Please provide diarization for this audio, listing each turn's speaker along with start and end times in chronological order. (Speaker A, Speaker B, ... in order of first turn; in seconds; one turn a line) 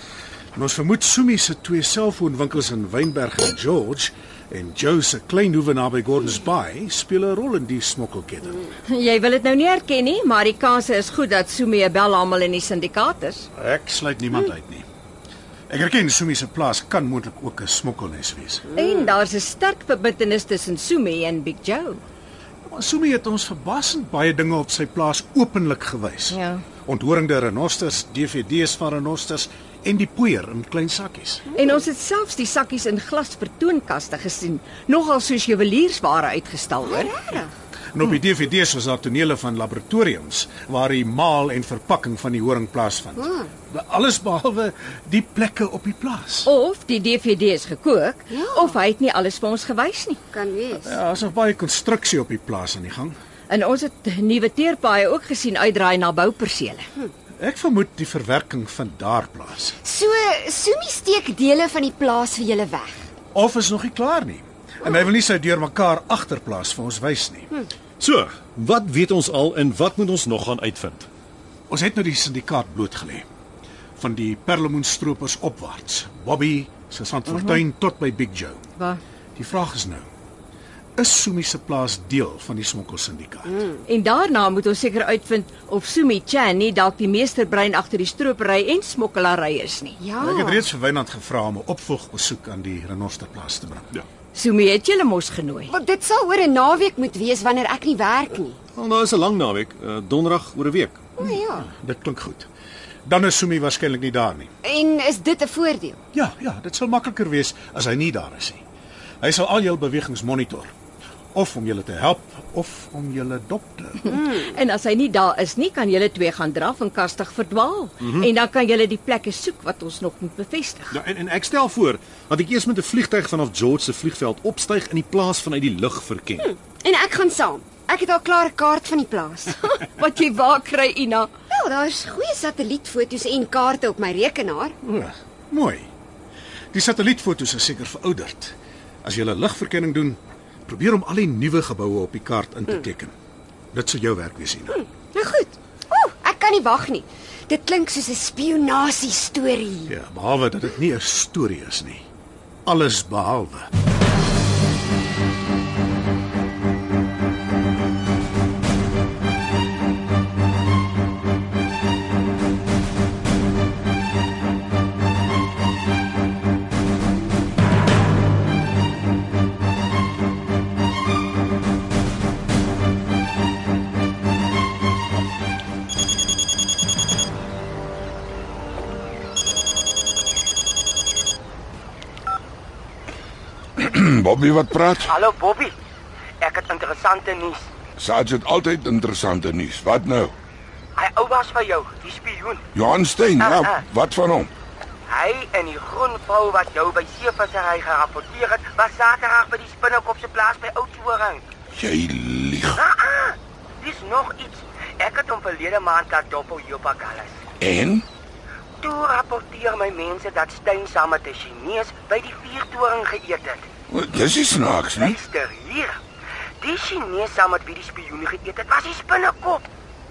Speaker A: 0.5-8.7
Speaker B: 8.9-13.5
Speaker A: 13.5-14.8
Speaker A: 15.7-18.7
Speaker B: 18.7-22.0
Speaker A: 22.6-31.4
Speaker B: 26.3-26.6
Speaker B: 31.5-37.1
Speaker C: 36.8-37.5
Speaker A: 37.9-46.5
Speaker C: 43.2-43.5
Speaker B: 46.4-50.2
Speaker C: 48.3-48.7
Speaker C: 50.3-50.9
Speaker A: 50.8-53.1
Speaker B: 53.5-56.9
Speaker A: 57.4-59.8
Speaker C: 59.8-63.0
Speaker A: 63.3-67.5
Speaker D: 68.0-71.1
Speaker A: 71.7-73.2
Speaker A: 74.0-78.6
Speaker A: 79.3-80.1
Speaker A: 81.0-83.6
Speaker B: 83.8-90.0
Speaker C: 90.0-90.7
Speaker A: 90.2-93.9
Speaker B: 94.3-95.7
Speaker C: 95.7-98.6
Speaker D: 98.7-101.0
Speaker C: 101.2-101.7
Speaker A: 101.2-102.5
Speaker A: 103.0-104.5
Speaker C: 104.6-106.0
Speaker A: 106.1-108.6
Speaker A: 109.2-110.7
Speaker A: 111.3-114.1
Speaker B: 114.0-121.0
Speaker D: 120.9-126.5
Speaker C: 126.4-129.6
Speaker B: 129.6-131.3
Speaker C: 131.5-134.7
Speaker A: 134.8-135.9
Speaker A: 136.7-143.1
Speaker A: 143.7-144.8
Speaker C: 144.8-149.9
Speaker A: 149.9-152.0
Speaker A: 152.7-153.7
Speaker E: 183.8-185.1
Speaker F: 185.0-185.7
Speaker F: 186.4-187.7
Speaker E: 188.0-190.3
Speaker F: 191.0-192.6
Speaker E: 192.7-194.5
Speaker F: 193.4-193.8
Speaker F: 195.1-201.4
Speaker E: 201.7-202.8
Speaker F: 202.8-207.4
Speaker E: 207.6-208.1
Speaker F: 208.8-213.6
Speaker E: 213.9-215.2
Speaker F: 214.9-216.0
Speaker F: 216.6-219.6